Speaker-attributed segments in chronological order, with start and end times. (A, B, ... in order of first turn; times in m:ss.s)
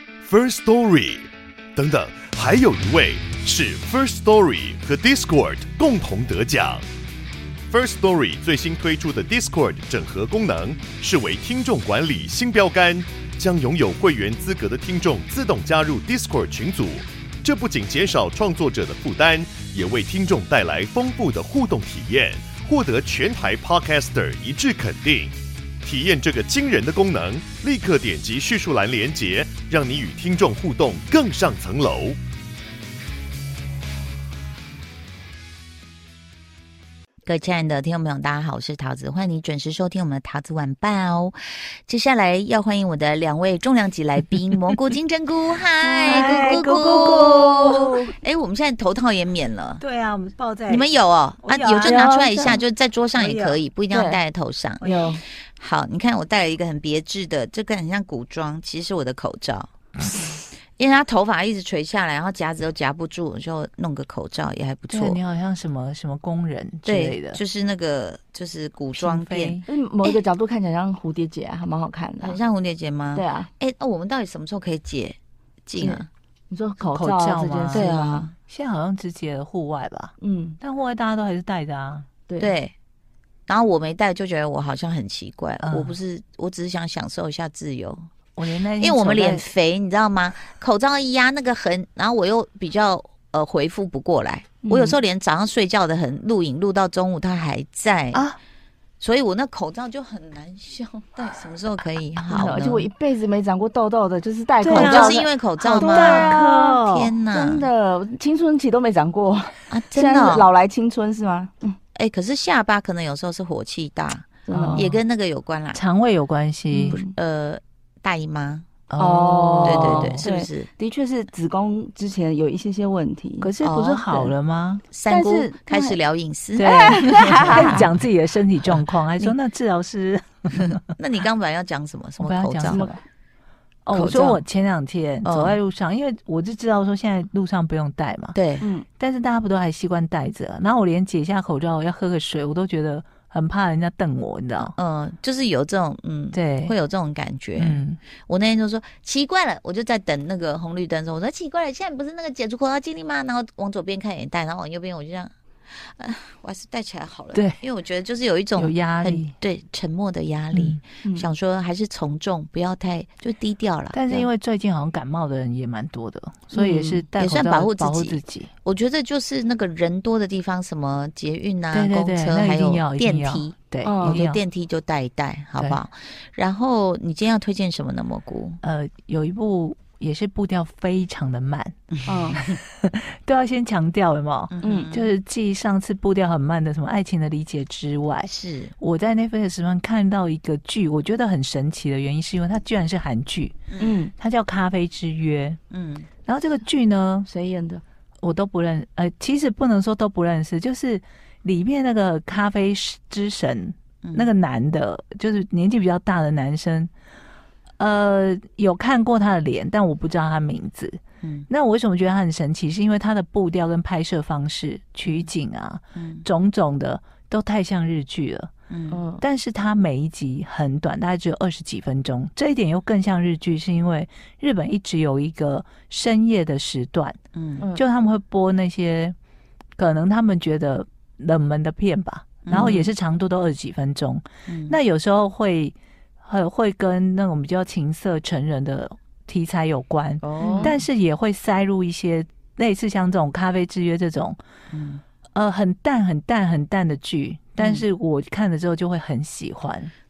0:00.2-0:06.8 A
0:07.7-0:32.2 A
0:37.3-0:41.4 B
0:41.9-0:49.8 B
0:45.8-0:48.1 C
0:47.2-0:47.5 D
0:49.8-0:50.9 C
0:50.7-0:59.7 B
0:51.4-0:52.6 C
0:51.8-0:52.6 D
0:53.2-0:53.6 C
0:53.9-0:54.2 D
0:54.8-0:55.2 C
0:54.8-0:55.2 D
1:00.8-1:05.2 B
1:04.9-1:07.4 C
1:06.8-1:10.2 B
1:08.9-1:09.7 C
1:09.7-1:12.4 D
1:12.2-1:16.1 B
1:13.1-1:13.5 D
1:15.8-1:18.3 D
1:16.8-1:17.9 C
1:17.7-1:18.3 B
1:18.5-1:22.1 C
1:20.2-1:20.6 D
1:22.4-1:22.7 B
1:23.5-1:28.1 B
1:25.6-1:26.0 C
1:28.4-1:29.4 C
1:28.8-1:38.3 B
1:34.6-1:35.0 D
1:38.1-1:38.4 C
1:39.0-1:42.9 B
1:42.3-1:51.8 D
1:44.6-1:47.1 C
1:44.7-1:47.7 B
1:49.7-1:50.5 B
1:52.0-1:55.8 B
1:54.5-1:54.9 D
1:54.5-1:55.0 C
1:55.7-1:57.0 C
1:56.7-1:57.1 D
1:56.9-1:58.7 B
1:58.9-2:00.2 C
1:59.0-2:04.4 D
1:59.6-2:00.7 B
2:03.4-2:04.8 C
2:04.9-2:07.9 B
2:05.1-2:06.0 D
2:06.6-2:10.8 C
2:06.6-2:07.9 D
2:10.6-2:12.9 B
2:12.2-2:12.9 C
2:12.7-2:13.0 D
2:13.9-2:18.4 C
2:13.9-2:14.4 B
2:15.2-2:15.6 B
2:18.3-2:18.7 B
2:19.0-2:24.8 C
2:24.8-2:44.3 B
2:26.3-2:26.8 C
2:27.6-2:28.0 C
2:37.3-2:37.6 C
2:38.6-2:39.3 C
2:40.5-2:40.8 C
2:43.9-2:48.5 C
2:46.5-2:47.0 D
2:47.2-2:58.6 B
2:51.7-2:54.4 C
2:53.8-2:54.2 D
2:58.6-3:01.8 C
3:01.9-3:02.6 B
3:02.1-3:02.4 D
3:02.4-3:15.6 C
3:04.5-3:05.1 B
3:04.6-3:04.9 D
3:08.2-3:08.8 B
3:13.8-3:14.1 D
3:15.7-3:16.1 B
3:16.3-3:17.3 C
3:17.3-3:17.8 D
3:18.2-3:26.9 C
3:24.0-3:24.3 B
3:27.8-3:38.5 C
3:31.2-3:31.5 B
3:36.0-3:36.3 B
3:38.7-3:39.0 B
3:38.9-3:39.2 D
3:39.2-3:47.2 C
3:47.3-3:47.7 B
3:47.7-3:49.2 C
3:49.8-4:04.4 C
3:52.4-3:52.8 B
3:52.5-3:52.9 D
3:54.5-3:54.8 B
4:00.2-4:00.8 B
4:00.4-4:00.8 D
4:04.7-4:05.0 B
4:05.3-4:09.9 C
4:07.6-4:07.9 B